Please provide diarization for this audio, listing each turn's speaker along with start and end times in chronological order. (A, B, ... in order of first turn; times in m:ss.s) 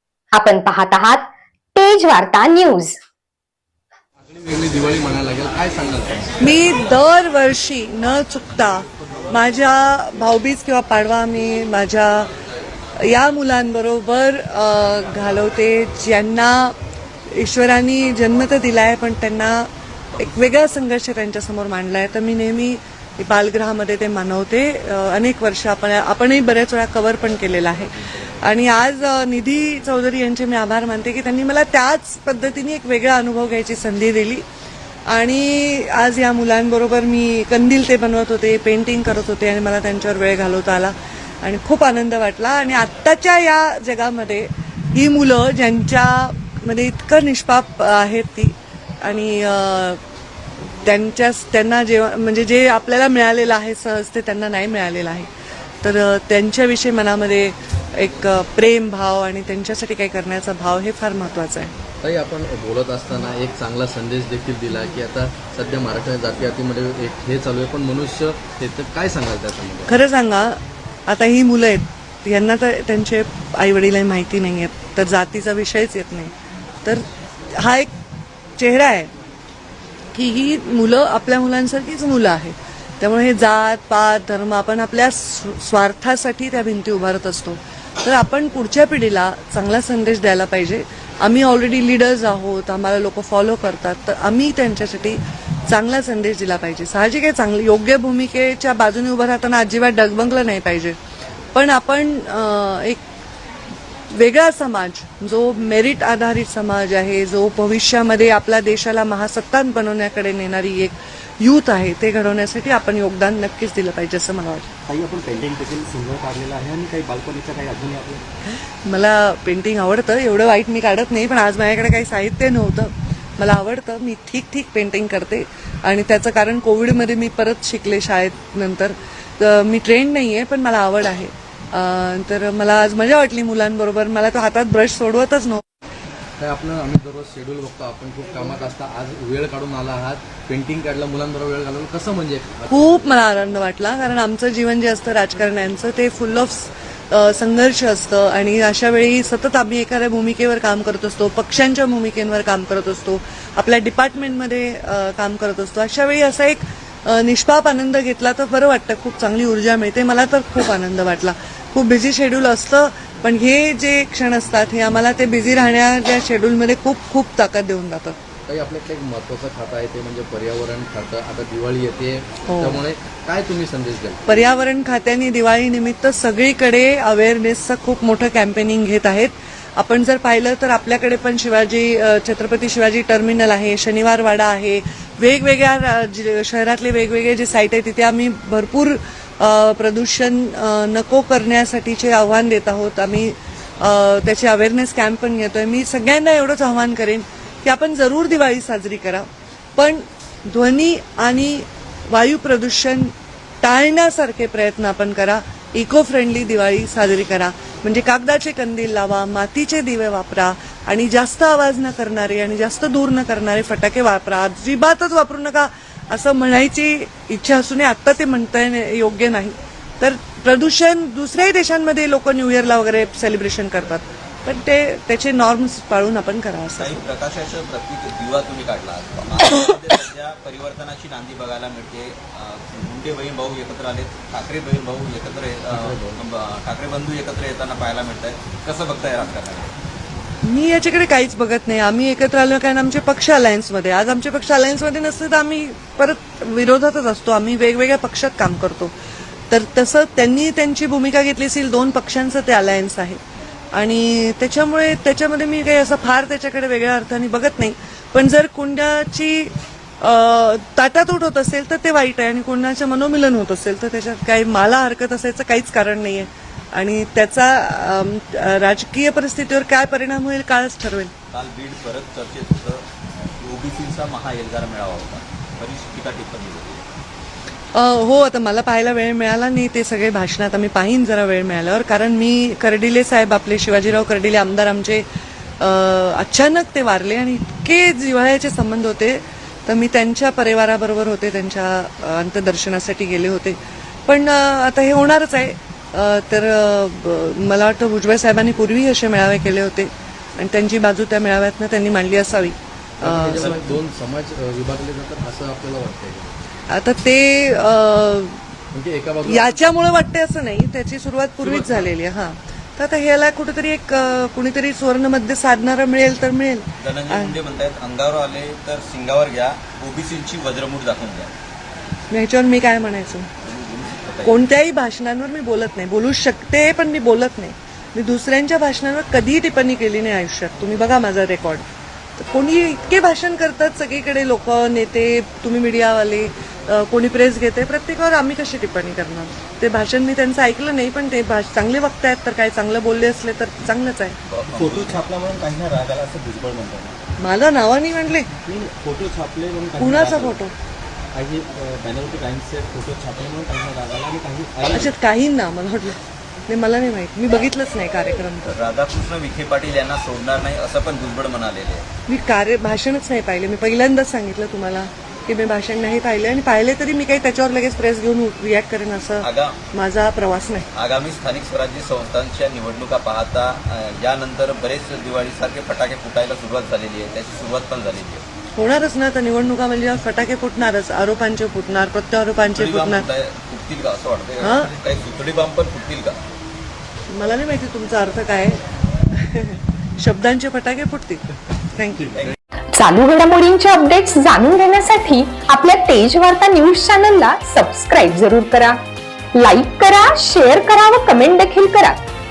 0:00.3-0:03.0 A
0:04.2-0:06.3 B
0:06.4-0:12.3 C
0:13.0-0:16.7 C
0:17.3-0:34.4 C
0:35.1-0:50.0 C
0:50.8-0:55.3 C
0:55.8-1:01.7 C
1:02.0-1:09.9 B
1:09.9-1:16.3 C
1:17.5-1:17.9 C
1:18.6-1:19.1 C
1:20.1-1:41.0 C
1:41.5-1:43.0 C
1:44.1-1:54.7 C
1:54.9-1:58.3 D
1:58.8-2:15.6 C
2:16.4-2:23.0 B
2:22.7-2:48.2 C
2:48.5-2:54.2 B
2:52.5-2:52.8 C
2:54.3-3:47.0 C
3:46.8-3:59.7 E
3:55.7-3:56.2 B
4:00.4-4:08.9 C
4:09.5-4:13.2 C
4:13.7-4:31.1 C
4:31.3-4:32.8 E
4:33.4-4:36.8 E
4:37.7-4:45.0 C
4:45.6-5:03.8 C
5:03.0-5:06.3 B
5:06.7-5:08.4 C
5:08.7-5:09.7 B
5:09.2-5:17.4 C
5:11.4-5:11.9 B
5:16.8-5:21.3 E
5:22.1-5:23.3 C
5:23.4-5:24.4 E
5:24.2-5:31.6 C
5:32.2-5:44.2 C
5:44.3-5:45.1 E
5:44.5-5:47.0 D
5:47.2-5:48.3 C
5:48.4-5:50.4 D
5:49.8-5:50.5 C
5:51.1-5:54.9 D
5:54.7-5:58.6 C
5:58.5-6:01.8 E
6:02.1-6:10.7 C
6:09.2-6:09.6 E
6:10.7-6:18.2 E
6:18.6-6:23.1 C
6:22.5-6:26.2 E
6:24.4-6:24.7 C
6:27.1-6:28.6 C
6:29.1-6:31.2 C
6:31.7-6:32.1 C
6:32.7-6:38.8 A
6:39.4-6:42.0 A